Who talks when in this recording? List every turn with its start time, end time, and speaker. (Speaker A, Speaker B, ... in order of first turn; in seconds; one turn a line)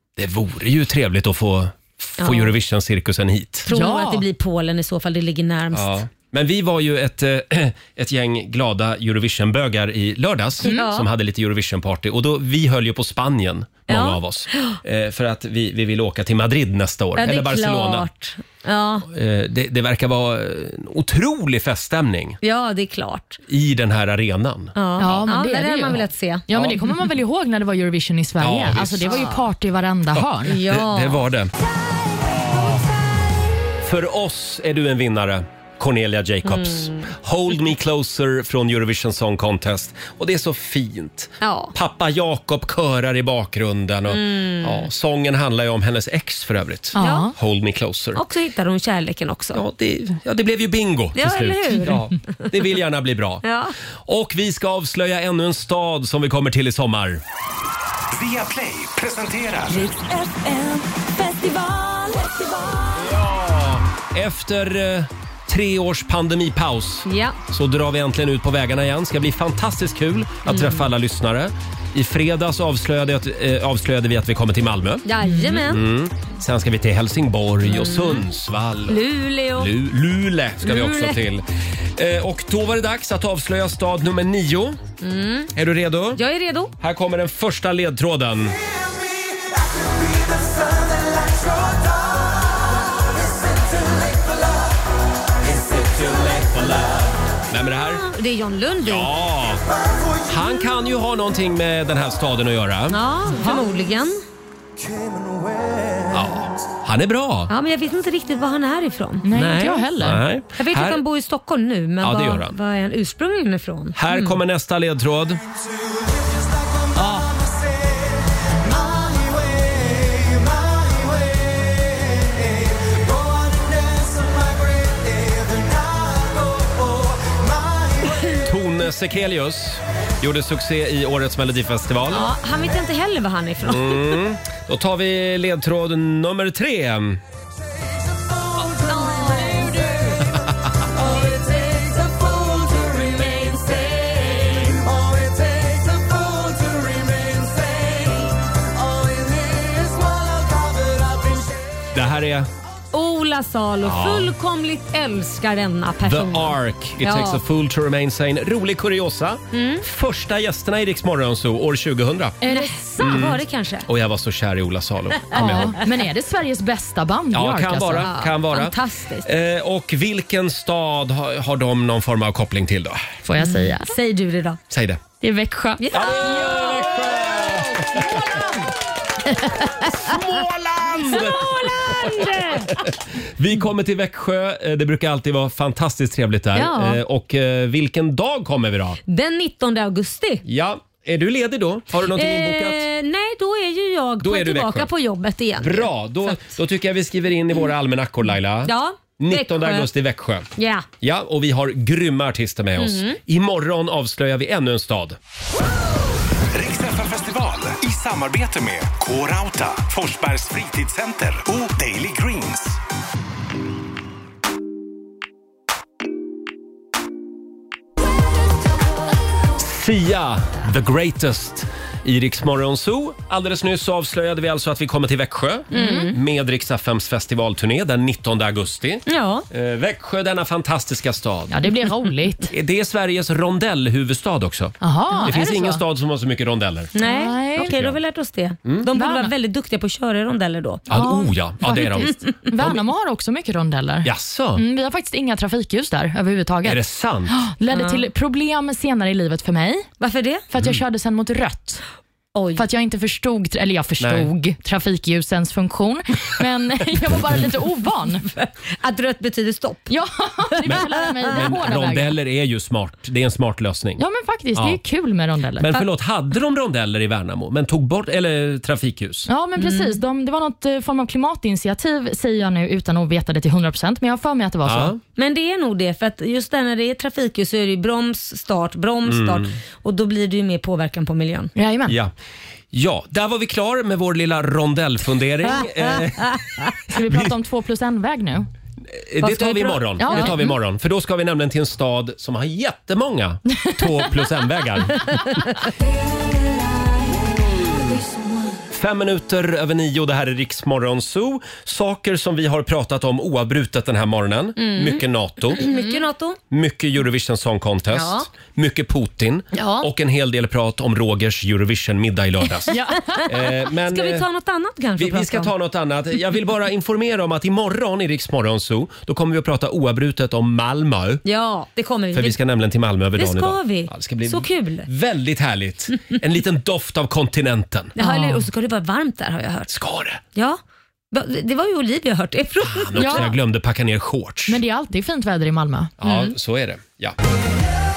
Speaker A: 0.2-3.7
Speaker B: 2.2-2.5
Speaker B: 3.7-6.0
Speaker C: 3.7-4.2
Speaker A: 5.7-18.1
Speaker B: 10.6-11.1
Speaker B: 13.9-14.8
Speaker B: 17.1-19.1
Speaker A: 19.1-22.4
Speaker B: 22.4-23.4
Speaker A: 23.5-25.2
Speaker B: 24.8-26.5
Speaker C: 25.0-30.6
Speaker A: 28.4-29.3
Speaker B: 29.0-29.4
Speaker A: 30.1-31.5
Speaker B: 30.4-31.2
Speaker A: 33.8-48.2
Speaker B: 36.5-37.0
Speaker B: 41.4-41.7
Speaker B: 44.1-44.9
Speaker C: 46.9-47.3
Speaker B: 47.0-47.3
Speaker B: 48.1-49.6
Speaker A: 49.5-53.4
Speaker B: 51.1-52.5
Speaker B: 53.4-53.7
Speaker A: 54.0-57.2
Speaker D: 58.1-59.7
Speaker B: 59.7-63.0
Speaker A: 62.9-75.0
Speaker B: 67.0-67.4
Speaker B: 70.5-70.9
Speaker B: 75.0-75.8
Speaker C: 75.3-75.6
Speaker A: 75.6-84.8
Speaker B: 77.7-78.2
Speaker B: 78.9-79.8
Speaker B: 80.6-81.2
Speaker B: 85.0-85.5
Speaker A: 85.5-86.2
Speaker B: 86.1-86.7
Speaker A: 86.8-88.6
Speaker A: 95.4-98.0
Speaker B: 97.7-99.1
Speaker A: 98.8-99.6
Speaker A: 100.3-103.0
Speaker B: 102.9-104.2
Speaker C: 103.3-103.6
Speaker A: 106.1-107.5
Speaker B: 107.5-109.3
Speaker C: 109.2-110.2
Speaker A: 109.3-111.0
Speaker B: 110.5-114.4
Speaker A: 112.0-112.5
Speaker A: 114.0-115.4
Speaker A: 128.4-132.3
Speaker B: 132.1-134.1
Speaker A: 133.6-137.2
Speaker B: 138.6-140.1
Speaker B: 141.0-144.1
Speaker A: 151.9-152.5
Speaker B: 152.9-157.4
Speaker A: 153.8-154.3
Speaker A: 156.0-162.4
Speaker B: 159.5-159.8
Speaker C: 162.4-163.2
Speaker B: 162.5-163.9
Speaker A: 163.0-165.8
Speaker B: 165.3-165.9
Speaker C: 165.3-168.1
Speaker A: 167.3-173.1
Speaker B: 168.0-169.3
Speaker C: 173.2-173.9
Speaker B: 173.4-174.6
Speaker A: 174.7-175.0
Speaker C: 175.2-176.9
Speaker B: 175.8-176.8
Speaker A: 175.9-178.4
Speaker C: 177.8-178.5
Speaker B: 179.3-180.2
Speaker A: 179.9-189.0
Speaker B: 181.1-182.9
Speaker B: 186.5-187.0
Speaker B: 189.1-190.4
Speaker A: 190.4-192.8
Speaker B: 192.1-196.5
Speaker A: 194.2-194.9
Speaker A: 195.6-200.5
Speaker B: 198.6-199.9
Speaker B: 200.6-200.9
Speaker A: 201.0-205.2
Speaker B: 202.8-203.2
Speaker D: 206.5-212.8
Speaker A: 219.6-231.5
Speaker B: 225.7-226.2
Speaker C: 225.7-226.1
Speaker B: 229.1-229.5
Speaker C: 231.5-232.5
Speaker A: 232.5-236.9
Speaker C: 234.8-235.8
Speaker B: 236.9-240.8
Speaker C: 237.0-237.7
Speaker A: 237.6-238.0
Speaker C: 238.9-239.3
Speaker A: 240.9-242.8
Speaker C: 240.9-249.8
Speaker A: 244.0-244.6
Speaker A: 246.6-247.4
Speaker B: 247.7-248.1
Speaker B: 250.0-250.4
Speaker C: 250.5-251.8
Speaker B: 252.3-252.6
Speaker C: 252.6-258.2
Speaker A: 254.0-254.3
Speaker B: 258.2-259.9
Speaker C: 259.9-262.1
Speaker B: 260.6-261.5
Speaker A: 260.6-264.0
Speaker C: 264.0-265.7
Speaker A: 265.6-269.3
Speaker C: 269.3-274.9
Speaker B: 269.6-270.0
Speaker A: 274.6-275.0
Speaker B: 275.1-281.5
Speaker A: 279.0-279.5
Speaker C: 281.6-282.0
Speaker A: 281.9-282.1
Speaker A: 282.7-286.4
Speaker B: 285.6-286.7
Speaker C: 286.9-288.5
Speaker A: 288.9-295.1
Speaker B: 289.2-290.5
Speaker C: 290.0-290.3
Speaker B: 295.1-295.4
Speaker A: 297.3-297.9
Speaker B: 297.9-298.2
Speaker A: 298.7-305.6
Speaker B: 304.6-306.4
Speaker C: 305.6-306.0
Speaker A: 306.5-314.3
Speaker B: 307.9-308.3
Speaker B: 309.6-309.8
Speaker B: 312.7-315.5
Speaker C: 312.7-313.2
Speaker A: 315.0-321.2
Speaker B: 321.2-322.4
Speaker A: 322.1-327.9
Speaker B: 323.1-324.9
Speaker B: 327.9-329.7
Speaker C: 328.0-328.4
Speaker A: 329.7-330.2
Speaker B: 330.3-330.6
Speaker B: 331.1-333.3
Speaker A: 332.6-334.6
Speaker C: 333.0-333.3
Speaker C: 334.5-335.9
Speaker A: 336.0-337.1
Speaker B: 336.0-336.3